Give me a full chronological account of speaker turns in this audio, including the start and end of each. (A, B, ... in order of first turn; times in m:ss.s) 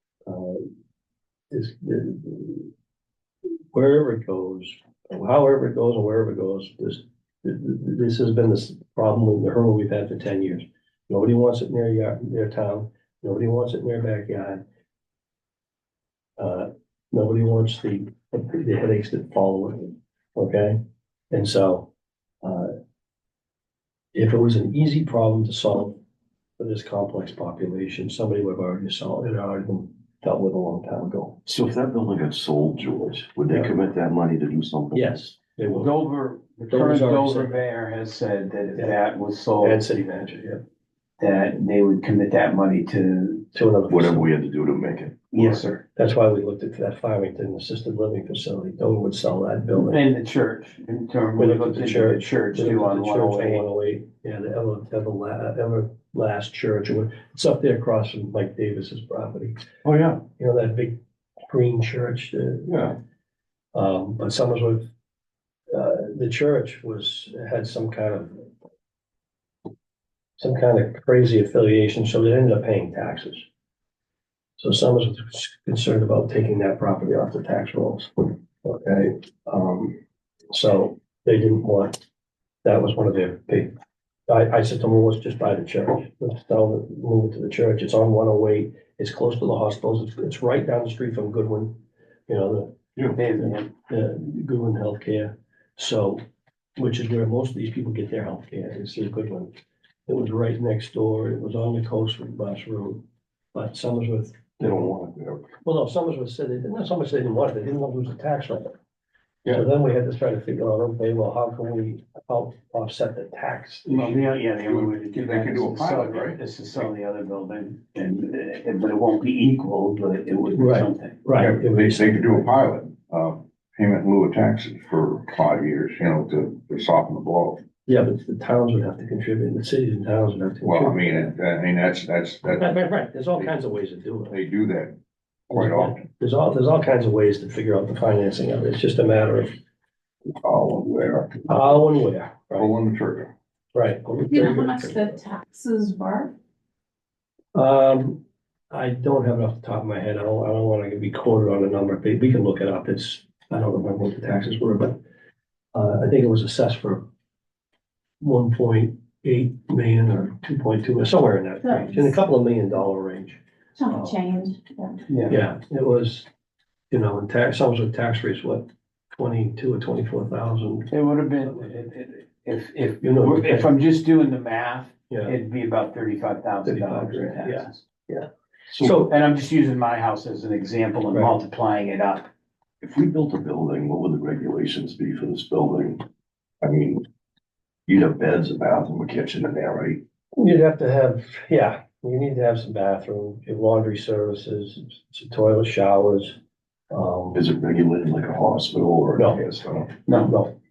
0:00.3-0:00.7 A
0:01.5-0:02.7 A
0:03.7-0:14.6 A
0:16.4-0:21.9 A
0:22.4-0:22.7 A
0:24.1-0:26.0 A
0:26.6-0:31.4 A
0:31.5-0:35.2 B
0:34.9-0:35.9 A
0:35.6-0:39.8 C
0:36.7-0:37.6 A
0:39.6-0:40.6 A
0:41.2-0:43.5 C
0:43.5-0:44.3 A
0:43.9-0:45.2 B
0:45.3-0:45.8 C
0:45.4-0:50.0 A
0:49.8-0:53.6 C
0:51.4-0:59.6 A
0:59.8-1:00.2 B
1:00.4-1:02.9 A
1:02.7-1:03.0 B
1:03.7-1:04.8 A
1:05.7-1:08.5 A
1:10.4-1:13.4 A
1:14.6-1:20.0 A
1:20.5-1:22.0 A
1:22.6-1:23.7 A
1:24.3-1:31.8 A
1:32.3-1:32.8 A
1:33.2-1:33.7 C
1:33.3-1:36.2 A
1:36.8-1:39.5 A
1:40.1-1:43.0 A
1:43.5-1:44.9 A
1:44.6-1:45.4 B
1:45.6-1:48.7 A
1:49.5-1:54.2 A
1:53.9-2:01.2 C
1:54.6-1:56.4 D
2:00.6-2:02.5 A
2:01.4-2:07.6 D
2:07.9-2:11.3 A
2:10.6-2:12.8 D
2:12.6-2:14.3 A
2:14.3-2:15.0 D
2:15.5-2:16.0 D
2:15.5-2:19.5 A
2:20.4-2:21.6 D
2:21.5-2:22.7 A
2:22.6-2:23.3 D
2:23.7-2:25.0 A
2:24.3-2:26.3 E
2:27.5-2:35.0 A
2:35.7-2:37.0 A
2:38.2-2:44.2 A
2:41.6-2:42.2 E
2:43.8-2:45.1 E
2:45.1-2:45.4 C
2:45.3-2:46.3 A
2:46.9-2:50.9 A
2:50.9-2:57.8 C
2:51.5-2:51.7 A
2:53.0-2:53.7 A
2:55.1-2:55.3 A
2:56.7-2:59.2 A
2:58.7-2:58.9 B
2:59.1-3:02.3 C
3:01.1-3:01.4 A
3:02.8-3:06.0 B
3:06.6-3:07.0 B
3:07.9-3:10.0 B
3:10.3-3:16.4 A
3:16.9-3:17.4 A
3:17.3-3:20.0 B
3:19.2-3:19.4 A
3:20.0-3:20.5 A
3:20.1-3:20.3 C